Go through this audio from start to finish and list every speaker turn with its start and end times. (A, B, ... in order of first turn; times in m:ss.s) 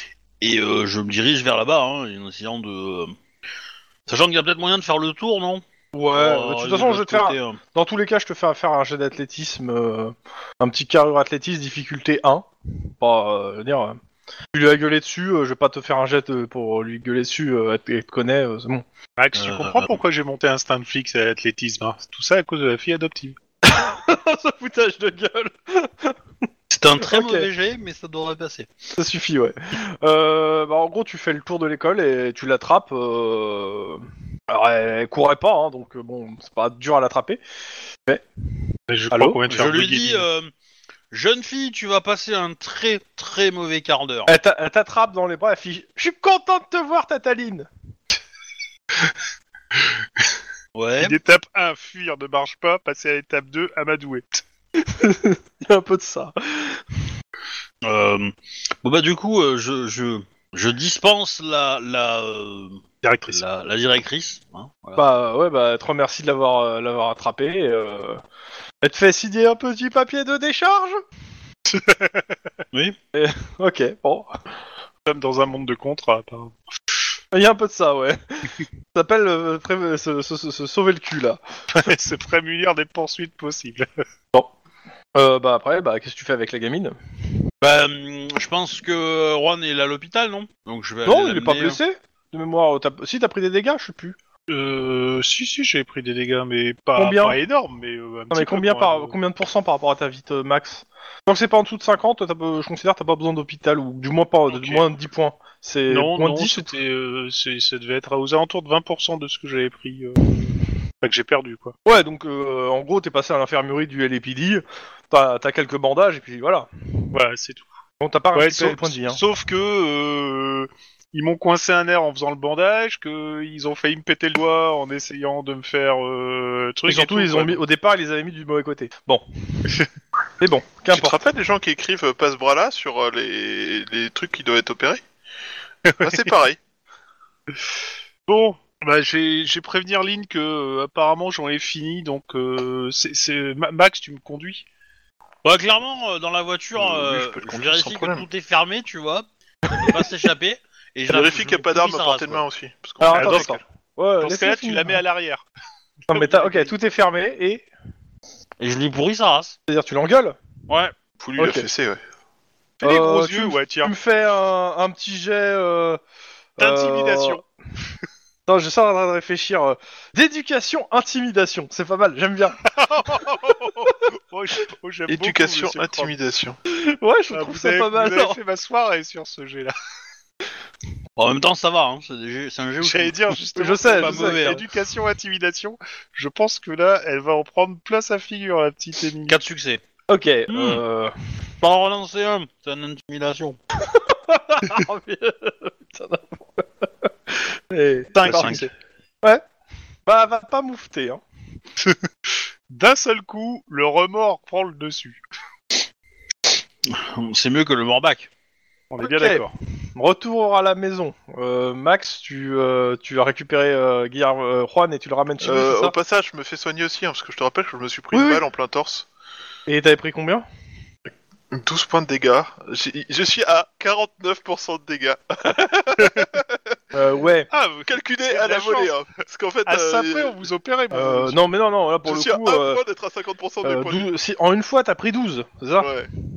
0:00.4-0:03.1 A
0:04.1-0:07.6 A
0:05.9-0:12.5 B
0:13.0-0:14.0 B
0:14.5-0:18.8 B
0:19.2-0:23.4 C
0:19.4-0:20.0 A
0:23.6-0:26.2 B
0:26.7-0:28.7 A
0:27.0-0:27.5 B
0:29.0-0:37.4 B
0:38.9-0:40.2 C
0:39.1-0:39.4 B
0:39.5-0:40.5 A
0:41.1-0:44.3 A
0:44.3-0:47.7 B
0:50.7-0:51.2 A
0:51.0-0:54.4 C
0:54.8-0:56.8 B
0:57.8-1:05.0 A
1:03.0-1:03.4 C
1:05.0-1:08.2 B
1:08.8-1:11.0 B
1:11.7-1:12.3 C
1:13.1-1:14.3 B
1:15.0-1:16.6 C
1:17.3-1:21.4 B
1:21.7-1:23.9 C
1:25.2-1:27.0 B
1:27.6-1:31.8 A
1:31.0-1:34.2 B
1:34.5-1:39.1 C
1:37.0-1:37.4 B
1:38.3-1:46.7 B
1:44.5-1:44.9 C
1:45.9-1:51.7 C
1:51.8-1:56.7 B
1:57.1-1:57.7 C
1:58.0-1:59.2 B
1:58.3-2:07.6 C
2:06.9-2:09.7 B
2:10.4-2:11.3 B
2:10.9-2:15.0 D
2:15.9-2:16.3 C
2:16.0-2:16.6 D
2:18.3-2:24.6 C
2:25.4-2:32.4 A
2:26.8-2:28.3 D
2:29.7-2:30.0 B
2:31.1-2:33.6 D
2:33.0-2:35.0 B
2:33.1-2:33.5 C
2:34.2-2:35.4 C
2:36.1-2:36.7 C
2:36.1-2:37.7 B
2:38.6-2:39.6 A
2:39.7-2:40.4 B
2:40.7-2:41.0 A
2:41.2-2:42.0 D
2:41.4-2:41.7 B
2:42.8-2:43.9 C
2:42.8-2:46.0 B
2:46.6-2:47.4 B
2:46.6-2:47.4 C
2:48.5-2:52.6 B
2:52.7-2:56.1 C
2:55.1-2:56.6 D
2:56.7-2:58.4 B
2:57.3-2:59.7 C
3:01.2-3:03.2 A
3:02.8-3:09.4 C
3:03.6-3:04.6 B
3:04.0-3:04.6 A
3:09.3-3:09.8 A
3:10.1-3:11.1 B
3:10.5-3:10.8 A
3:11.6-3:13.6 A
3:13.8-3:18.7 B
3:18.2-3:18.7 C
3:18.2-3:18.7 A
3:20.1-3:21.2 B
3:22.7-3:25.2 C
3:26.9-3:28.3 A
3:28.9-3:29.5 C
3:29.0-3:29.4 B
3:30.0-3:35.9 B
3:35.4-3:39.1 D
3:38.1-3:38.4 B
3:39.7-3:40.5 B
3:41.5-3:46.8 D
3:46.9-3:47.5 B
3:47.5-3:48.9 C
3:47.9-3:50.4 D
3:49.7-3:51.4 C
3:50.9-3:52.8 B
3:52.0-3:54.0 D
3:53.6-3:55.9 B
3:55.8-3:56.1 D